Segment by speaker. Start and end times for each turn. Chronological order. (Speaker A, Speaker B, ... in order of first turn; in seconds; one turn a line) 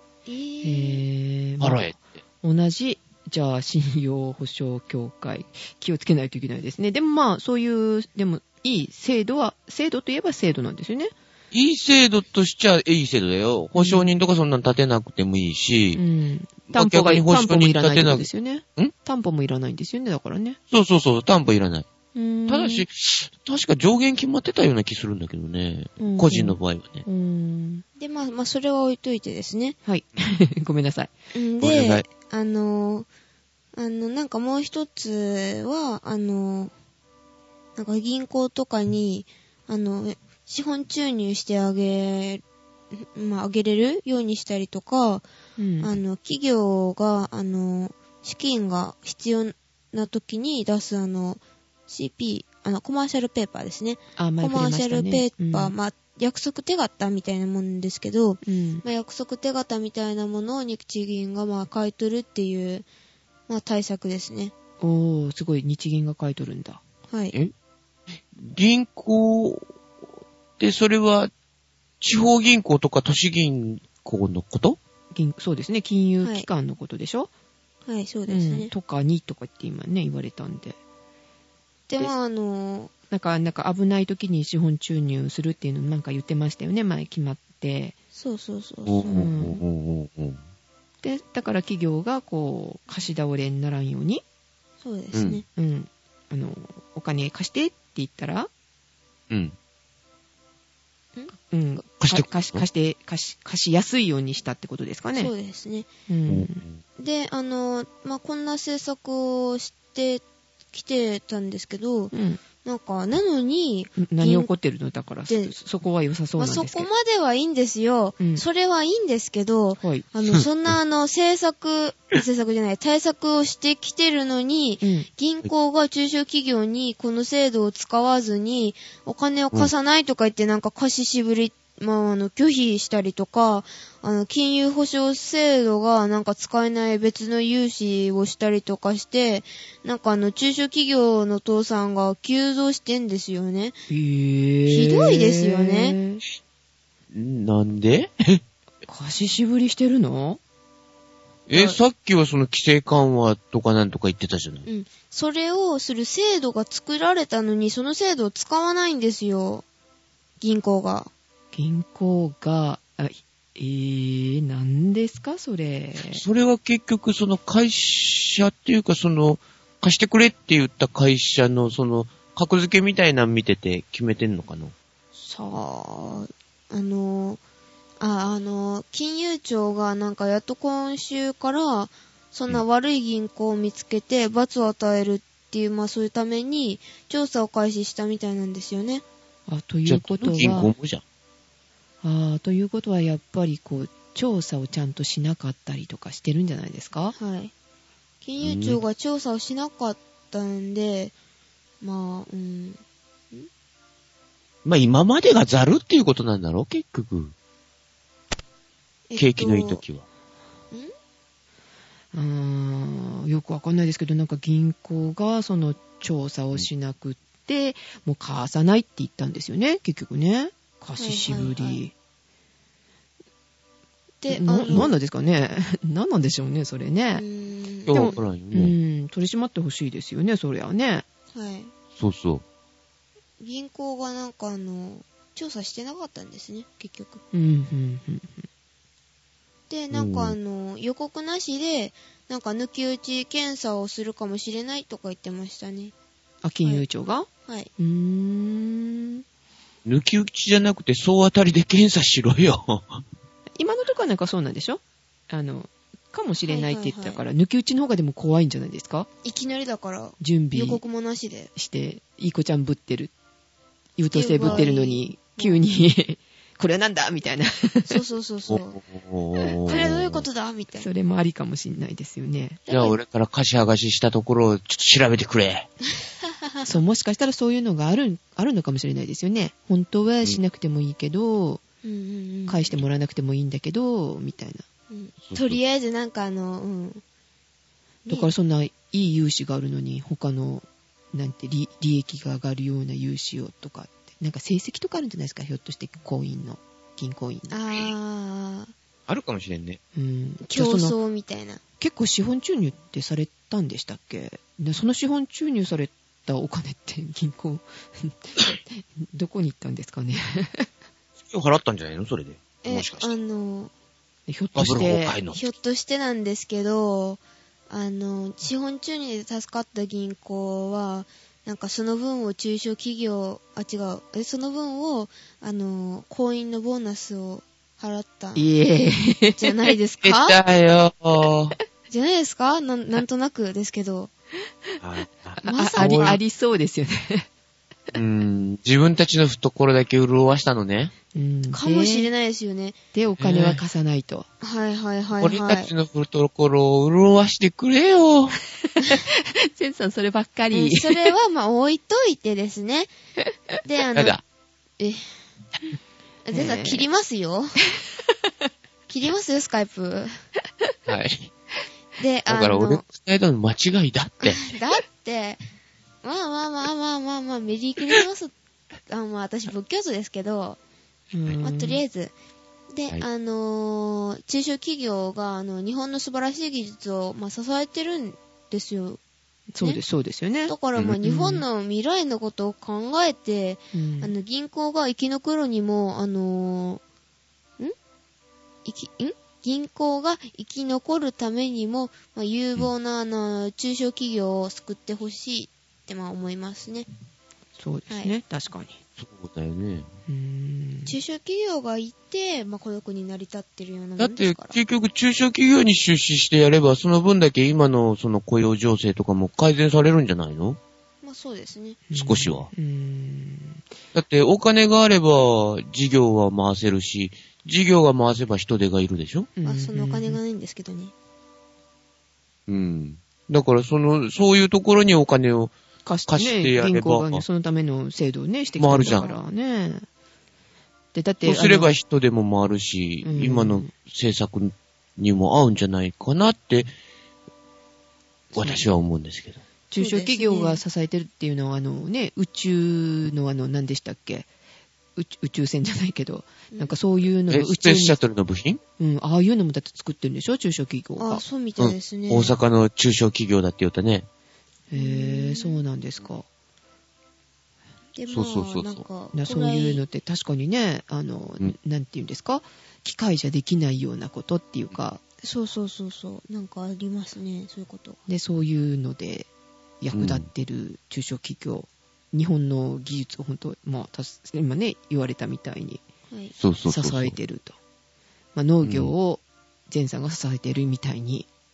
Speaker A: 0.2-1.0
Speaker B: 0.6-11.1
Speaker C: 1.6-2.0
Speaker C: 11.5-16.0
Speaker B: 13.7-14.1
Speaker B: 15.9-20.6
Speaker C: 16.7-18.9
Speaker C: 20.7-21.9
Speaker B: 22.1-22.8
Speaker C: 22.5-27.1
Speaker B: 26.0-27.8
Speaker A: 28.0-29.8
Speaker B: 29.9-31.1
Speaker A: 31.3-33.1
Speaker C: 31.6-32.0
Speaker A: 33.7-36.7
Speaker A: 37.8-42.4
Speaker A: 42.9-45.2
Speaker B: 45.6-45.9
Speaker A: 45.8-62.9
Speaker B: 54.2-55.7
Speaker B: 58.4-58.8
Speaker A: 63.5-64.5
Speaker B: 64.8-66.8
Speaker A: 67.1-67.3
Speaker C: 68.3-69.6
Speaker C: 70.6-71.3
Speaker C: 72.0-74.8
Speaker B: 75.1-77.3
Speaker A: 76.2-76.5
Speaker A: 77.8-78.7
Speaker B: 78.3-80.8
Speaker A: 81.9-82.9
Speaker B: 83.1-87.9
Speaker A: 88.1-89.3
Speaker C: 88.8-90.4
Speaker B: 89.1-89.6
Speaker B: 91.0-94.2
Speaker A: 94.8-95.4
Speaker C: 95.1-95.4
Speaker B: 95.5-98.5
Speaker C: 99.3-99.5
Speaker B: 101.5-105.3
Speaker C: 102.0-102.6
Speaker A: 105.1-105.9
Speaker B: 106.1-106.6
Speaker C: 106.3-106.8
Speaker A: 107.0-112.1
Speaker B: 112.1-112.4
Speaker A: 112.6-114.5
Speaker B: 114.0-116.9
Speaker A: 115.3-115.5
Speaker A: 116.3-143.8
Speaker B: 119.8-120.1
Speaker B: 124.8-125.1
Speaker B: 143.9-146.2
Speaker A: 144.7-146.0
Speaker C: 147.1-148.4
Speaker B: 148.8-150.4
Speaker C: 151.5-154.7
Speaker A: 154.7-159.6
Speaker A: 160.4-161.1
Speaker B: 161.5-166.2
Speaker C: 166.1-174.7
Speaker A: 175.2-177.4
Speaker A: 178.0-189.0
Speaker B: 189.5-190.7
Speaker C: 189.8-191.0
Speaker B: 192.0-197.1
Speaker A: 197.1-197.5
Speaker A: 198.2-201.1
Speaker C: 198.4-198.8
Speaker A: 201.8-202.8
Speaker C: 204.6-207.3
Speaker A: 209.1-209.8
Speaker C: 209.2-210.0
Speaker B: 212.1-221.9
Speaker A: 221.0-221.8
Speaker A: 224.2-224.9
Speaker B: 224.3-227.2
Speaker A: 227.2-228.2
Speaker C: 227.9-228.8
Speaker B: 227.9-231.0
Speaker A: 231.3-231.7
Speaker C: 232.0-232.4
Speaker A: 233.4-237.2
Speaker B: 237.3-238.5
Speaker A: 239.7-245.9
Speaker C: 239.9-240.3
Speaker B: 246.4-249.2
Speaker C: 249.8-253.0
Speaker B: 253.6-259.1
Speaker A: 256.4-257.2
Speaker A: 259.2-261.5
Speaker B: 260.2-260.8
Speaker B: 261.6-263.1
Speaker B: 264.0-268.0
Speaker A: 264.1-265.6
Speaker A: 267.8-268.8
Speaker C: 268.5-270.2
Speaker A: 269.6-270.9
Speaker B: 270.8-272.6
Speaker A: 272.7-273.0
Speaker C: 272.7-275.7
Speaker A: 276.4-276.7
Speaker B: 276.6-281.6
Speaker A: 281.8-282.8
Speaker B: 282.5-284.6
Speaker A: 284.9-287.0
Speaker C: 285.2-285.6
Speaker A: 288.1-288.3
Speaker B: 288.1-297.6
Speaker A: 297.5-298.7
Speaker C: 299.1-299.8
Speaker B: 299.9-300.9
Speaker A: 300.4-301.6
Speaker B: 301.8-310.7
Speaker C: 311.3-313.1
Speaker A: 312.6-313.7
Speaker B: 314.3-315.2
Speaker C: 314.6-315.5
Speaker A: 315.3-328.5
Speaker B: 328.4-329.5
Speaker A: 329.3-330.4
Speaker C: 330.0-331.6
Speaker A: 331.9-334.1
Speaker C: 334.8-336.2
Speaker B: 335.4-337.3
Speaker A: 335.4-336.2
Speaker C: 337.9-340.9
Speaker B: 341.1-342.1
Speaker A: 341.5-342.8
Speaker B: 342.9-344.3
Speaker C: 343.2-343.6
Speaker A: 344.4-345.7
Speaker C: 345.2-348.4
Speaker B: 348.8-351.1
Speaker A: 350.5-352.9
Speaker A: 353.6-354.2
Speaker C: 353.9-354.2
Speaker A: 354.8-355.1
Speaker A: 356.2-357.6
Speaker B: 356.3-356.9
Speaker A: 358.9-360.1
Speaker C: 360.9-361.3
Speaker A: 362.0-362.8
Speaker C: 362.3-364.5
Speaker A: 364.2-365.4
Speaker A: 366.0-368.3
Speaker A: 368.9-370.6
Speaker B: 371.1-371.8
Speaker A: 371.4-372.1
Speaker A: 372.7-379.0
Speaker B: 379.5-381.4
Speaker A: 380.5-386.8
Speaker B: 383.7-384.1
Speaker A: 388.6-396.9
Speaker B: 397.6-398.8
Speaker A: 397.9-398.1
Speaker C: 399.0-399.9
Speaker B: 400.1-400.9
Speaker A: 400.9-404.6
Speaker C: 404.0-410.6
Speaker A: 411.0-411.8
Speaker B: 411.9-413.6
Speaker C: 411.9-412.5
Speaker C: 413.9-419.3
Speaker B: 419.4-420.2
Speaker A: 419.4-420.9
Speaker C: 422.5-425.5
Speaker B: 425.8-429.9
Speaker C: 426.1-427.2
Speaker C: 428.6-429.1
Speaker A: 428.9-429.2
Speaker B: 430.9-431.7
Speaker C: 431.2-436.7
Speaker B: 433.0-433.7
Speaker C: 438.3-439.4
Speaker B: 439.7-444.3
Speaker A: 439.8-440.6
Speaker B: 444.9-448.0
Speaker C: 447.3-448.6
Speaker B: 448.8-451.2
Speaker A: 451.0-452.4
Speaker C: 451.6-454.1
Speaker B: 454.7-456.2
Speaker A: 454.7-455.6
Speaker A: 457.9-459.8
Speaker C: 458.1-458.8
Speaker B: 459.1-465.0
Speaker A: 465.2-468.0
Speaker B: 468.1-469.3
Speaker B: 469.8-475.8
Speaker C: 469.9-470.2
Speaker C: 476.4-477.1
Speaker B: 476.6-477.6
Speaker B: 478.3-481.3
Speaker C: 478.6-478.9